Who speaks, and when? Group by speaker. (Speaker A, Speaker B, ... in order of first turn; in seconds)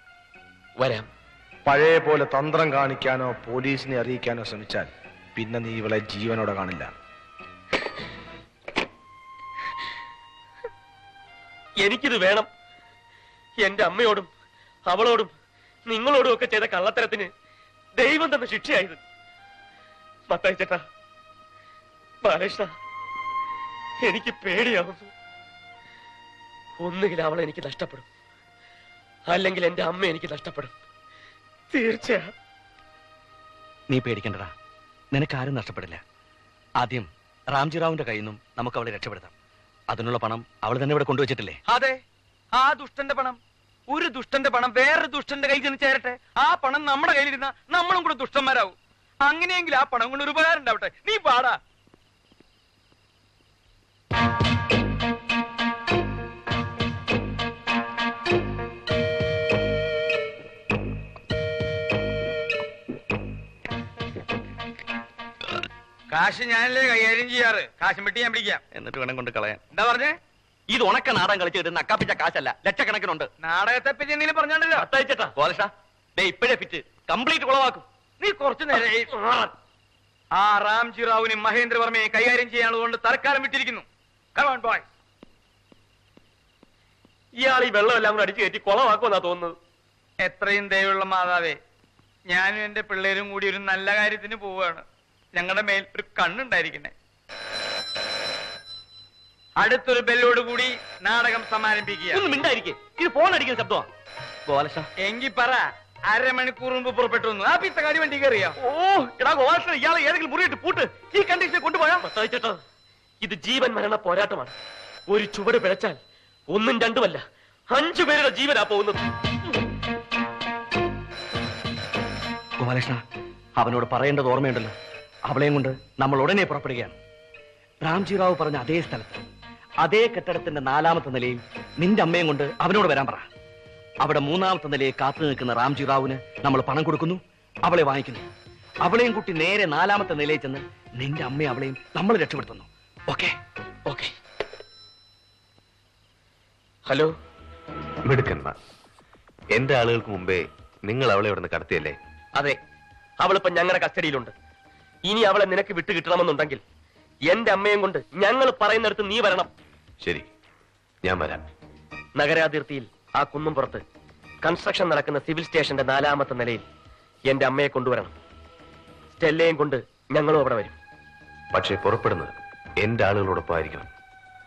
Speaker A: 0.8-1.1, 11.8-12.5, 13.6-14.3, 14.9-15.3, 15.9-17.3, 18.0-19.0, 20.3-20.8, 22.2-22.7, 24.1-25.1, 26.8-28.1, 29.3-30.7, 31.7-32.3, 74.8-75.3, 79.1-79.5, 87.4-89.5, 112.0-112.6, 113.2-114.5, 115.1-116.0, 116.5-119.0, 153.2-154.3, 155.1-156.6, 157.3-159.5, 162.2-163.8, 164.4-166.6, 167.3-168.1, 169.2-170.8
Speaker B: 1.7-6.9
Speaker C: 33.9-34.5, 35.1-36.0, 36.8-39.3, 39.9-41.6, 68.7-69.6, 70.7-73.3, 75.4-77.9, 102.1-103.9, 104.5-104.9, 108.6-112.0, 122.6-123.0, 123.6-124.8, 125.3-127.0, 127.8-129.2, 129.8-133.3, 134.0-138.3, 138.8-143.4
Speaker D: 41.6-42.0, 42.5-51.6, 66.1-68.6, 69.7-70.2, 73.4-74.9, 78.2-79.1, 80.4-83.8, 84.3-84.9, 90.2-91.6, 92.3-96.9, 99.6-102.3, 105.0-108.6
Speaker E: 148.1-148.6, 149.5-151.9, 160.0-160.3, 161.0-161.4, 171.5-173.9